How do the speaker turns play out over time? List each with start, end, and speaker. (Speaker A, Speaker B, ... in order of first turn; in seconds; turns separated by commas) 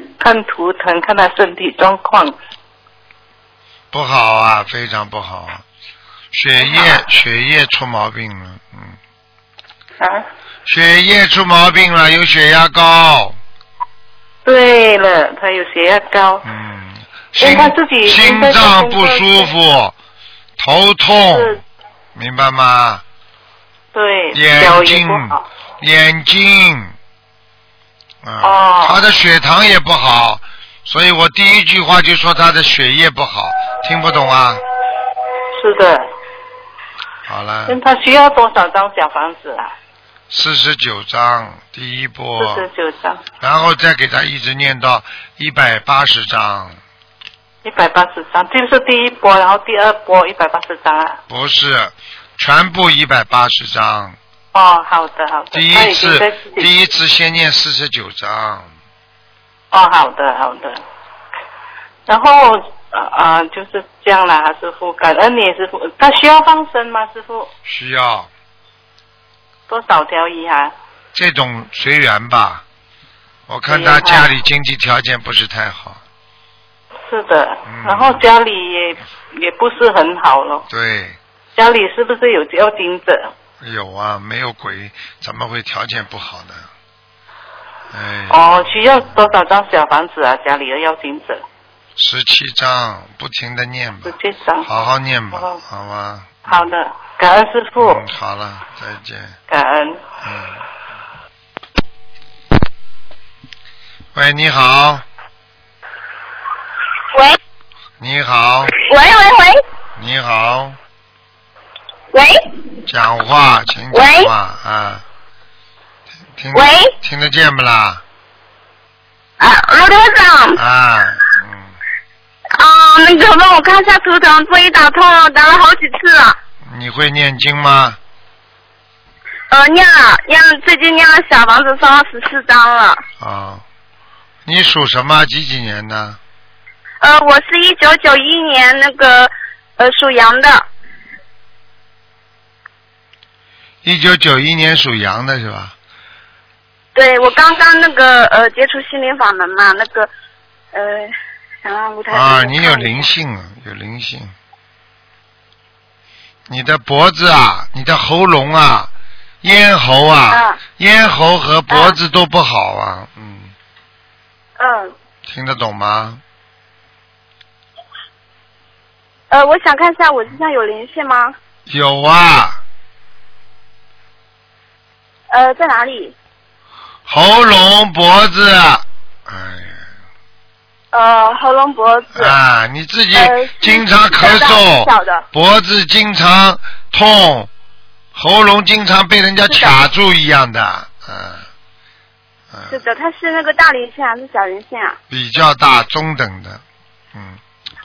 Speaker A: 0.2-2.4, Speaker B: 3.9-5.6, Speaker B: 6.3-9.0, Speaker A: 6.6-7.0, Speaker A: 10.0-10.3, Speaker B: 10.7-13.4, Speaker A: 14.4-16.5, Speaker B: 16.4-19.9, Speaker A: 17.4-19.5, Speaker B: 20.6-21.6, Speaker A: 21.3-21.6, Speaker B: 22.1-23.0, Speaker A: 23.9-25.4, Speaker B: 24.3-26.9, Speaker B: 28.2-34.6, Speaker A: 28.4-29.1, Speaker A: 35.6-36.1, Speaker B: 37.3-37.8, Speaker A: 37.7-39.7, Speaker B: 40.3-42.7, Speaker A: 42.4-43.2, Speaker B: 43.4-46.8, Speaker A: 47.6-51.2, Speaker B: 51.3-54.2, Speaker A: 54.5-56.7, Speaker B: 55.5-58.7, Speaker A: 59.7-60.8, Speaker A: 62.1-67.5, Speaker B: 67.7-68.3, Speaker A: 69.7-70.7, Speaker B: 71.1-72.6, Speaker B: 73.5-76.0, Speaker A: 73.7-74.3, Speaker A: 77.1-80.7, Speaker B: 77.7-78.2, Speaker B: 80.7-81.2, Speaker A: 81.6-83.3, Speaker B: 83.6-86.7, Speaker B: 87.9-88.8, Speaker A: 88.3-91.4, Speaker B: 92.0-96.4, Speaker A: 94.0-94.8, Speaker A: 96.5-98.0, Speaker B: 97.8-99.4, Speaker A: 99.5-100.0, Speaker B: 100.2-100.6, Speaker B: 104.2-105.0, Speaker B: 108.0-108.7, Speaker C: 108.8-109.6, Speaker B: 110.0-110.8, Speaker C: 112.1-112.4, Speaker B: 112.9-115.0, Speaker C: 113.9-114.3, Speaker B: 116.3-118.0, Speaker C: 116.5-116.9, Speaker C: 119.4-120.6, Speaker B: 120.5-121.8, Speaker C: 122.5-126.4, Speaker B: 126.6-128.0, Speaker C: 129.5-133.0, Speaker B: 133.2-133.6, Speaker B: 134.5-136.2, Speaker C: 137.0-140.7, Speaker B: 143.8-145.7, Speaker C: 146.9-150.1, Speaker C: 150.7-151.1, Speaker C: 151.6-153.1, Speaker B: 152.1-154.3, Speaker B: 156.5-158.9, Speaker B: 159.4-163.5, Speaker C: 160.3-160.6, Speaker C: 161.7-162.0, Speaker C: 164.6-164.9, Speaker B: 165.3-166.2, Speaker C: 169.3-171.3, Speaker B: 171.7-172.6, Speaker C: 175.3-176.2, Speaker B: 177.1-179.8, Speaker C: 180.9-182.4, Speaker B: 182.1-187.5, Speaker C: 183.1-185.2, Speaker B: 188.2-191.5, Speaker C: 189.5-189.8, Speaker B: 192.5-192.8, Speaker C: 192.7-195.0, Speaker B: 195.1-196.6, Speaker B: 197.1-197.4